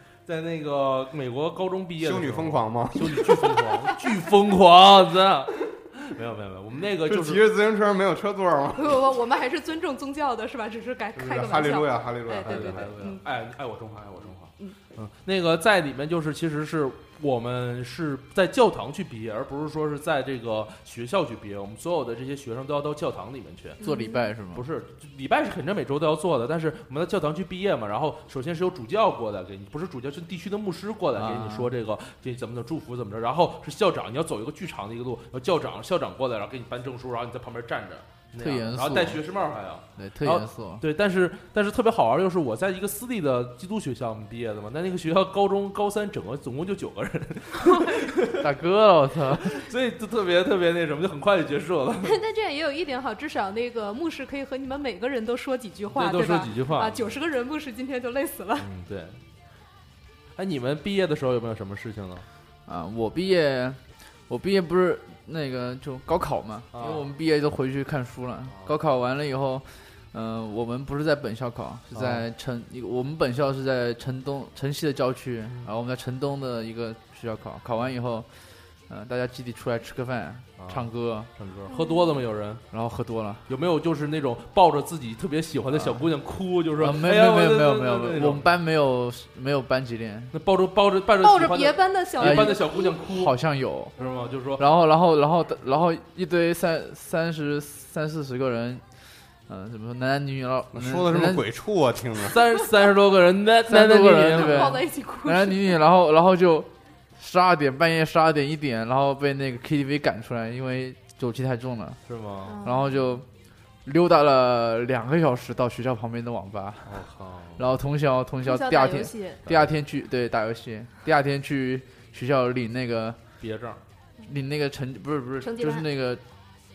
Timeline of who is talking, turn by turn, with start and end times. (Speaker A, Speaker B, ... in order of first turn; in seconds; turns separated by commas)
Speaker A: 0.3-7.5, Speaker B: 2.0-3.4, Speaker B: 7.0-9.1, Speaker C: 8.7-13.2, Speaker B: 11.2-13.0, Speaker A: 12.4-23.8, Speaker C: 23.8-24.3, Speaker D: 23.8-24.6, Speaker A: 24.6-48.5, Speaker D: 31.2-31.7, Speaker D: 38.4-39.2, Speaker D: 40.0-40.8, Speaker C: 47.6-48.0, Speaker D: 48.3-49.6, Speaker A: 49.5-52.2, Speaker C: 52.0-58.7, Speaker A: 55.9-57.1, Speaker A: 58.6-59.2, Speaker A: 60.4-62.3, Speaker D: 62.7-78.3, Speaker A: 66.7-67.1, Speaker A: 68.5-68.8, Speaker A: 71.9-72.2, Speaker D: 78.9-81.3, Speaker A: 80.6-82.6, Speaker C: 81.7-82.2, Speaker D: 82.7-83.5, Speaker A: 83.5-88.5, Speaker D: 85.7-86.0, Speaker D: 86.8-90.3, Speaker A: 90.3-93.3, Speaker C: 91.2-93.0, Speaker D: 92.2-93.9, Speaker A: 94.0-94.7, Speaker C: 94.0-94.3, Speaker D: 94.6-98.8, Speaker D: 99.5-101.4, Speaker B: 100.7-102.4, Speaker A: 102.3-104.8, Speaker D: 103.7-112.0, Speaker C: 104.3-105.8, Speaker A: 112.1-112.6, Speaker C: 112.5-113.2, Speaker D: 112.6-113.3, Speaker D: 113.8-117.0, Speaker A: 116.9-117.6, Speaker D: 117.6-123.2, Speaker C: 118.4-119.4, Speaker A: 123.4-123.8, Speaker D: 124.3-126.2, Speaker C: 125.4-125.9